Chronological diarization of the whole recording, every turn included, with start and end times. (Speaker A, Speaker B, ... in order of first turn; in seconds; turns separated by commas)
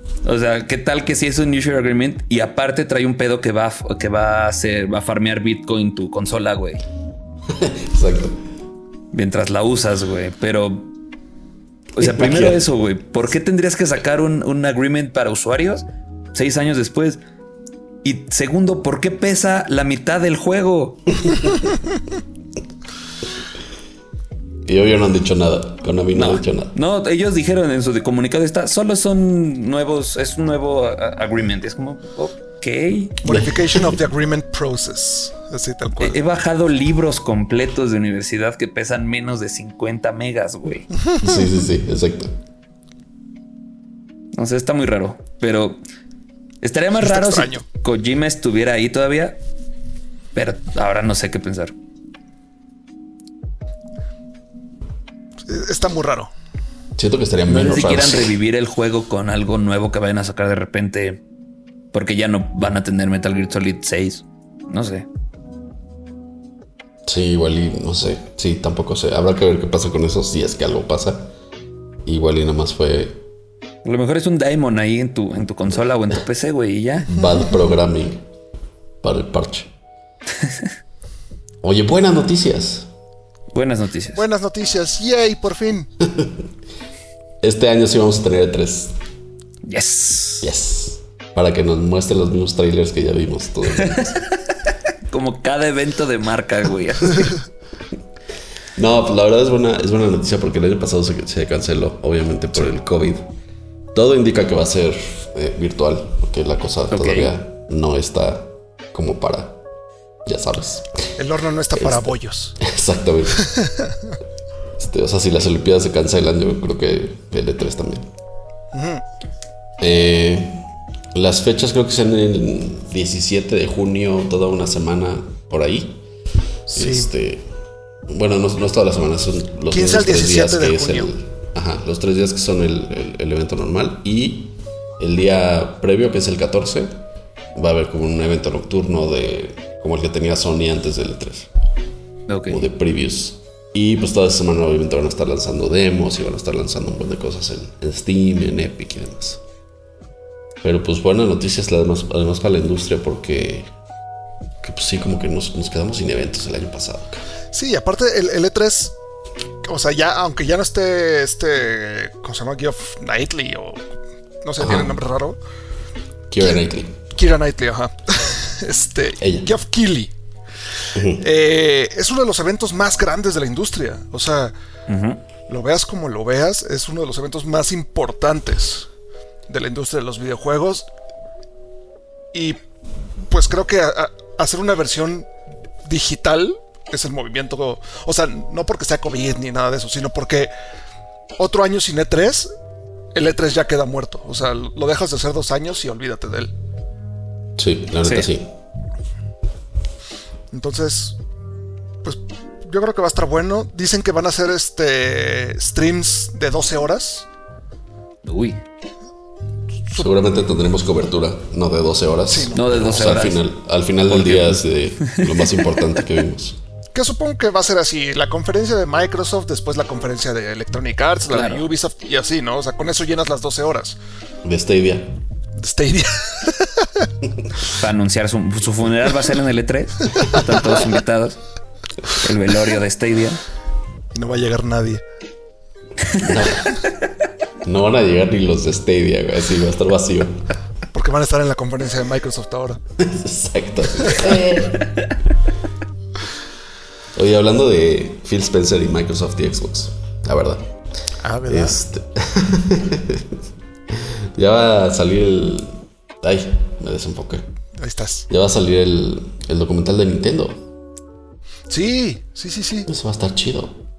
Speaker A: 0.2-6.8, Speaker B: 7.5-8.4, Speaker A: 9.1-10.9, Speaker A: 11.9-17.2, Speaker B: 12.0-12.6, Speaker A: 18.0-21.5, Speaker B: 24.6-26.7, Speaker A: 26.1-33.2, Speaker C: 33.2-36.2, Speaker B: 33.2-34.0, Speaker A: 36.0-40.9, Speaker B: 41.2-42.4, Speaker A: 44.3-45.8, Speaker A: 46.6-49.4, Speaker C: 46.9-47.6, Speaker A: 50.3-51.7, Speaker C: 55.5-56.3, Speaker B: 57.0-58.3, Speaker A: 57.5-61.2, Speaker A: 61.9-65.0, Speaker B: 67.1-71.3, Speaker B: 72.0-73.2, Speaker A: 73.8-77.1, Speaker B: 77.1-78.2, Speaker B: 79.0-79.7, Speaker B: 81.6-82.9, Speaker A: 83.5-84.2, Speaker C: 84.1-85.9, Speaker B: 86.0-86.4, Speaker B: 87.4-88.9, Speaker A: 89.6-90.5, Speaker B: 90.4-94.2, Speaker A: 93.7-94.5, Speaker A: 95.1-97.4, Speaker B: 98.8-103.3, Speaker B: 103.9-109.6, Speaker A: 106.9-107.3, Speaker B: 110.2-110.9, Speaker C: 111.2-112.6, Speaker B: 111.7-113.5, Speaker C: 113.4-114.1, Speaker B: 114.8-118.1, Speaker C: 118.7-119.0, Speaker B: 119.8-126.0, Speaker C: 126.7-127.1, Speaker B: 126.7-127.4, Speaker B: 128.1-137.0, Speaker C: 129.7-131.1, Speaker B: 137.5-141.5, Speaker A: 142.3-142.6, Speaker B: 142.5-149.4, Speaker B: 150.6-153.7, Speaker B: 154.6-157.2, Speaker C: 157.5-158.9, Speaker C: 159.6-163.9, Speaker C: 164.4-165.4, Speaker B: 164.6-164.9, Speaker B: 166.3-167.0, Speaker C: 167.1-170.1, Speaker B: 169.2-169.5, Speaker B: 170.9-171.2, Speaker C: 171.1-174.5, Speaker A: 174.9-175.2, Speaker C: 175.5-178.9, Speaker C: 179.5-180.9, Speaker C: 182.3-182.6, Speaker C: 183.3-185.3, Speaker C: 185.8-190.5, Speaker C: 191.4-192.5, Speaker C: 193.1-196.5, Speaker B: 197.6-198.5, Speaker C: 200.5-201.2, Speaker C: 202.0-207.3, Speaker A: 208.2-208.6, Speaker B: 210.0-216.6, Speaker C: 212.3-213.2, Speaker A: 212.5-213.4, Speaker A: 214.1-215.8, Speaker C: 216.9-224.0, Speaker A: 221.3-221.6, Speaker B: 224.4-225.2, Speaker C: 225.6-227.1, Speaker A: 227.7-231.4, Speaker A: 232.1-233.4, Speaker C: 234.1-235.0, Speaker B: 236.2-236.7, Speaker B: 237.6-240.4, Speaker C: 240.9-242.8, Speaker B: 243.0-244.9, Speaker B: 247.1-250.7, Speaker C: 251.2-251.8, Speaker B: 251.5-257.4, Speaker C: 257.8-258.3, Speaker B: 258.3-260.6, Speaker C: 261.7-262.9, Speaker B: 262.9-263.8